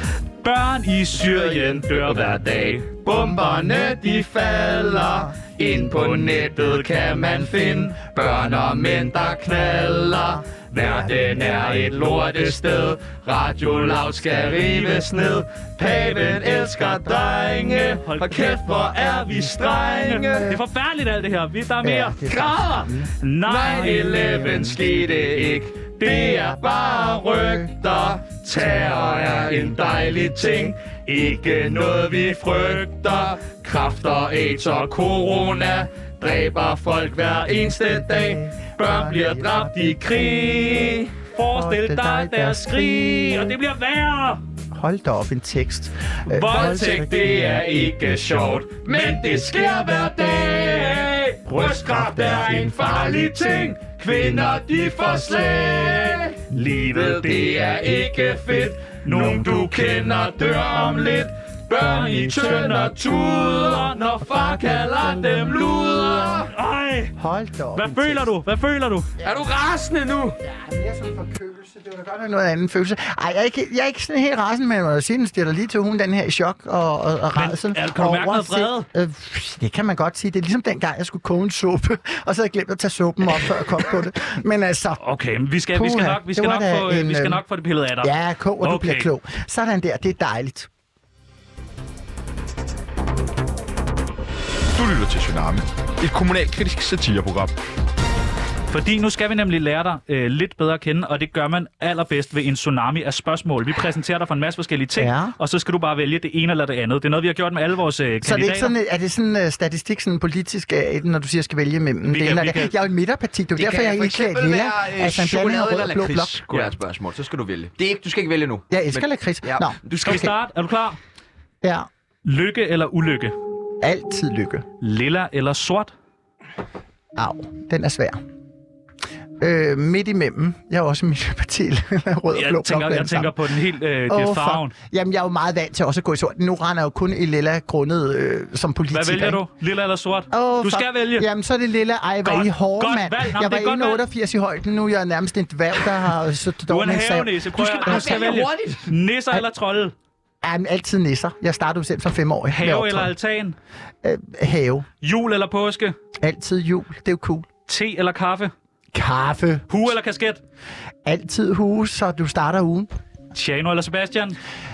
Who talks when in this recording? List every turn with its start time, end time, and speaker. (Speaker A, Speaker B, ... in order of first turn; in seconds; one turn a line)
Speaker A: 0.4-3.7
Speaker B: 1.2-20.5
Speaker C: 5.0-5.3
Speaker A: 5.9-7.9
Speaker C: 10.1-11.9
Speaker A: 11.3-11.9
Speaker A: 13.7-15.1
Speaker A: 15.9-16.3
Speaker C: 16.6-17.6
Speaker A: 17.7-22.3
Speaker C: 21.8-23.1
Speaker B: 22.3-22.9
Speaker A: 23.2-26.1
Speaker B: 23.5-41.1
Speaker C: 24.1-24.6
Speaker C: 26.1-27.8
Speaker C: 28.6-30.7
Speaker A: 29.2-29.7
Speaker C: 37.2-40.9
Speaker A: 41.3-44.4
Speaker C: 41.5-43.5
Speaker C: 44.7-48.3
Speaker A: 46.3-46.9
Speaker B: 46.5-56.4
Speaker A: 49.0-49.2
Speaker C: 49.3-50.0
Speaker C: 51.5-54.6
Speaker A: 51.6-53.6
Speaker C: 55.1-55.6
Speaker A: 56.5-57.8
Speaker B: 56.9-66.5
Speaker A: 59.0-60.8
Speaker C: 60.6-61.2
Speaker C: 61.7-63.0
Speaker A: 61.9-64.0
Speaker C: 64.2-66.5
Speaker A: 66.4-67.1
Speaker C: 67.2-68.3
Speaker A: 67.7-69.1
Speaker C: 69.2-69.5
Speaker B: 69.2-70.3
Speaker C: 70.4-85.0
Speaker A: 77.3-78.9
Speaker A: 85.0-89.1
Speaker C: 85.7-87.4
Speaker C: 88.0-90.7
Speaker D: 94.8-95.7
Speaker B: 96.0-96.7
Speaker D: 96.5-97.5
Speaker A: 98.7-108.7
Speaker C: 105.0-105.3
Speaker C: 108.2-116.4
Speaker A: 112.0-112.7
Speaker B: 113.5-120.3
Speaker C: 118.7-120.3
Speaker A: 120.0-121.0
Speaker C: 121.6-121.9
Speaker A: 122.2-123.3
Speaker C: 123.8-124.6
Speaker A: 124.8-125.9
Speaker C: 127.2-128.2
Speaker C: 129.4-133.4
Speaker A: 132.3-134.7
Speaker C: 134.1-139.4
Speaker A: 138.9-141.3
Speaker C: 140.3-148.2
Speaker A: 142.2-144.0
Speaker A: 146.7-149.9
Speaker B: 147.6-148.9
Speaker C: 150.4-153.1
Speaker A: 152.5-153.6
Speaker C: 154.0-154.9
Speaker A: 155.0-155.9
Speaker C: 156.2-157.5
Speaker A: 157.7-158.5
Speaker C: 158.9-159.8
Speaker A: 159.7-160.4
Speaker C: 161.0-162.9
Speaker A: 163.3-164.4